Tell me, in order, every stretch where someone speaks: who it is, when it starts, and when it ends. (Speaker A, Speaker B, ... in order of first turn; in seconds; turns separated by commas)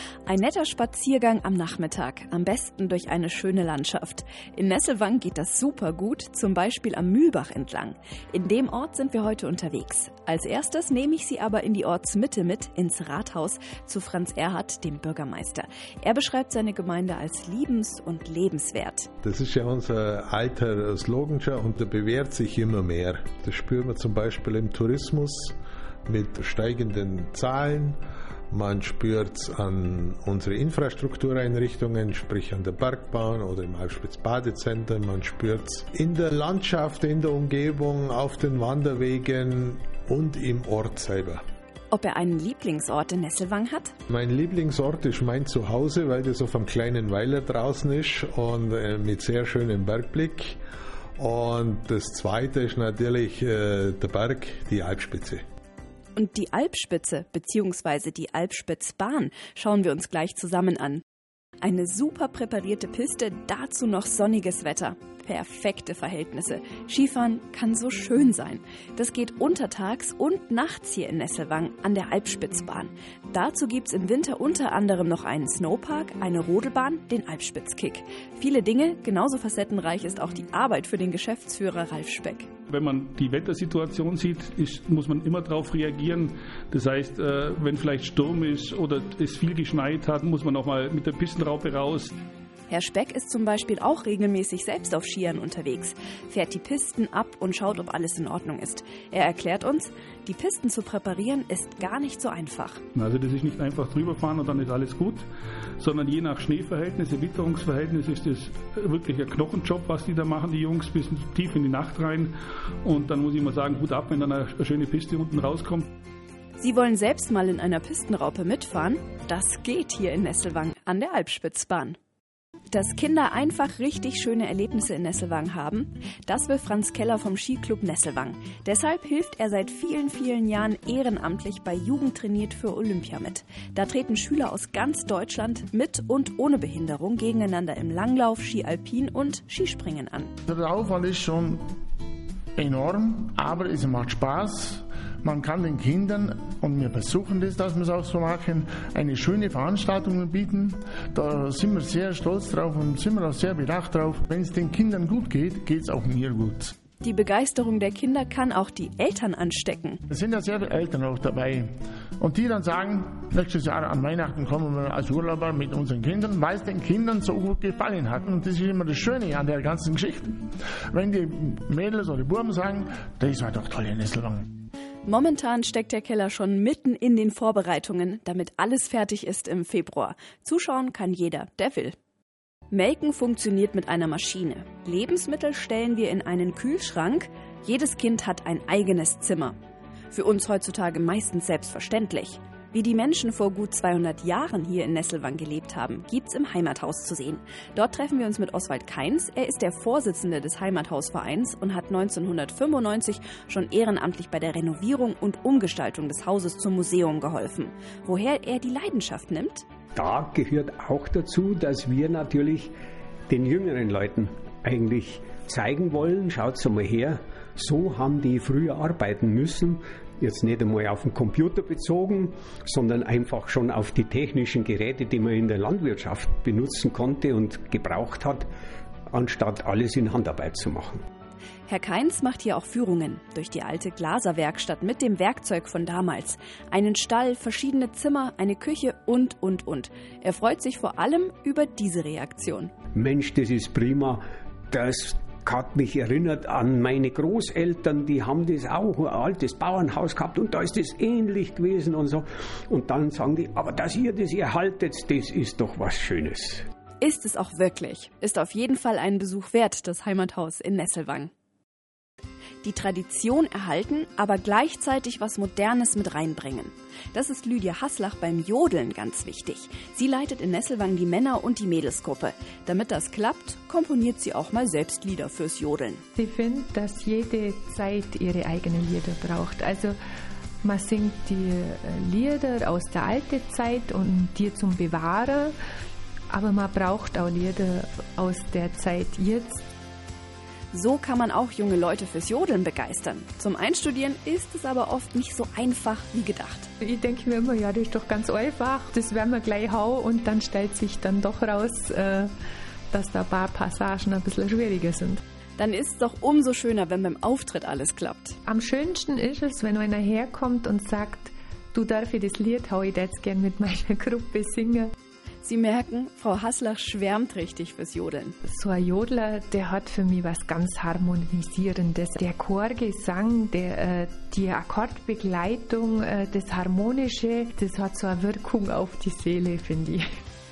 Speaker A: 0.3-19.1, Speaker B: 19.2-28.0, Speaker B: 28.5-41.4, Speaker A: 41.9-44.0, Speaker B: 44.1-50.6, Speaker B: 51.2-55.4, Speaker A: 56.2-61.0, Speaker A: 61.6-82.5, Speaker C: 82.7-92.1, Speaker A: 92.7-102.8, Speaker C: 103.0-105.2, Speaker C: 105.8-112.3, Speaker C: 112.8-115.9, Speaker A: 116.6-122.0, Speaker A: 122.7-140.3, Speaker D: 140.5-141.6, Speaker D: 142.6-144.7, Speaker D: 145.2-156.7, Speaker A: 157.0-160.0, Speaker D: 160.1-161.6, Speaker D: 162.4-170.2, Speaker D: 170.9-174.4, Speaker A: 175.1-182.0, Speaker A: 182.7-189.6, Speaker A: 190.1-209.7, Speaker E: 210.0-212.7, Speaker E: 213.3-228.5, Speaker E: 229.1-231.0, Speaker A: 231.7-242.7, Speaker E: 242.9-256.6, Speaker A: 257.0-261.3, Speaker A: 262.6-276.0, Speaker F: 276.2-280.0, Speaker F: 280.6-285.6, Speaker F: 286.3-289.6, Speaker A: 290.7-296.7, Speaker F: 296.8-302.3, Speaker F: 302.9-305.2, Speaker A: 305.6-308.4, Speaker F: 308.5-314.9, Speaker A: 315.4-318.4, Speaker F: 318.4-330.1